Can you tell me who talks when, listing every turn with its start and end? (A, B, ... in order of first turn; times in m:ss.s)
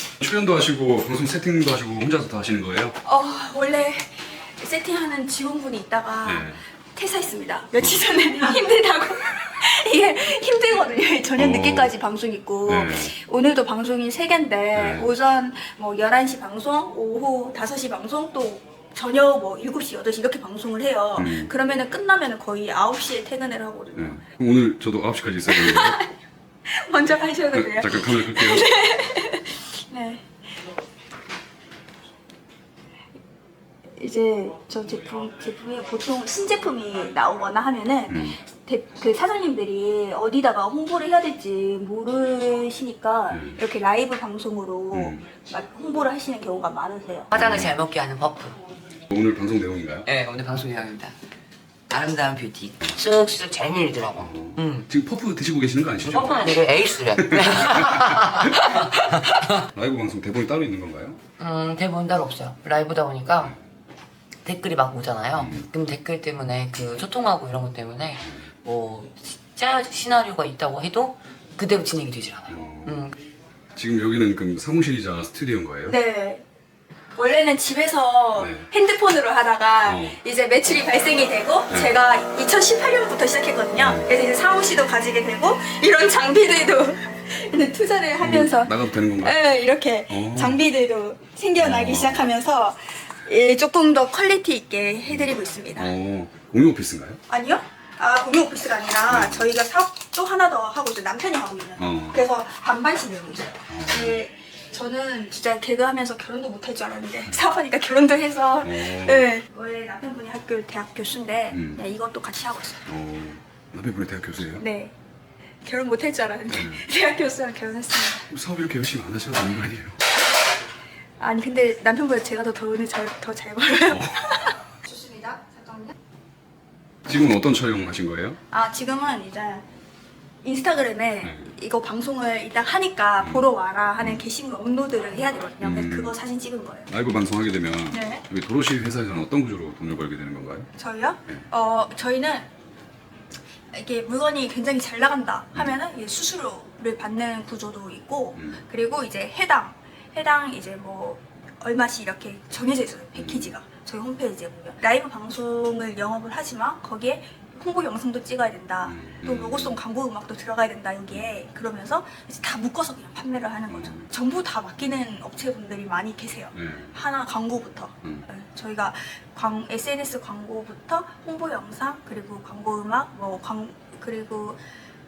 0:00.2-0:03.0 A
0:03.0-0:24.2 B
0:06.2-0:06.6 A
0:07.8-0:08.2 A
0:11.4-0:12.0 A
0:12.7-0:13.1 A
0:14.7-0:15.1 A
0:21.2-0:21.5 A
0:24.0-0:26.0 A
0:25.5-0:26.1 B
0:26.7-0:30.3 B
0:27.5-0:28.7 A
0:34.0-0:47.3 B
0:38.1-0:38.4 A
0:43.3-0:43.6 A
0:44.9-0:45.2 A
0:47.3-0:48.6 C
0:47.3-0:47.7 A
0:49.1-0:50.1 A
0:50.1-0:51.2 C
0:51.9-0:54.9 C
0:54.1-0:56.6 A
0:56.1-0:59.6 C
0:57.2-0:59.0 A
0:59.7-1:01.2 A
1:01.4-1:03.5 C
1:04.4-1:13.2 C
1:05.3-1:05.7 A
1:12.5-1:13.1 A
1:13.8-1:16.0 A
1:15.9-1:16.4 B
1:17.2-1:35.9 B
1:18.4-1:18.7 A
1:19.8-1:20.2 A
1:21.7-1:22.0 A
1:23.8-1:24.1 A
1:28.2-1:29.4 A
1:30.1-1:30.6 A
1:31.6-1:32.3 A
1:35.1-1:37.2 A
1:37.3-1:52.9 B
1:39.1-1:39.5 A
1:41.8-1:42.2 A
1:43.7-1:44.2 A
1:48.6-1:49.3 A
1:51.5-1:51.8 A
1:52.9-1:54.6 A
1:54.6-1:54.9 B
1:55.6-1:58.3 B
1:56.5-1:56.8 A
1:58.3-2:00.0 A
2:01.2-2:05.9 B
2:03.9-2:04.6 A
2:07.1-2:08.4 A
2:08.5-2:09.6 B
2:10.4-2:16.9 B
2:11.2-2:11.5 A
2:13.2-2:13.5 A
2:15.6-2:16.2 A
2:16.9-2:20.7 A
2:17.9-2:18.2 B
2:20.8-2:22.5 B
2:23.7-2:54.6 B
2:33.2-2:33.5 A
2:38.9-2:39.8 A
2:43.7-2:44.1 A
2:46.5-2:46.9 A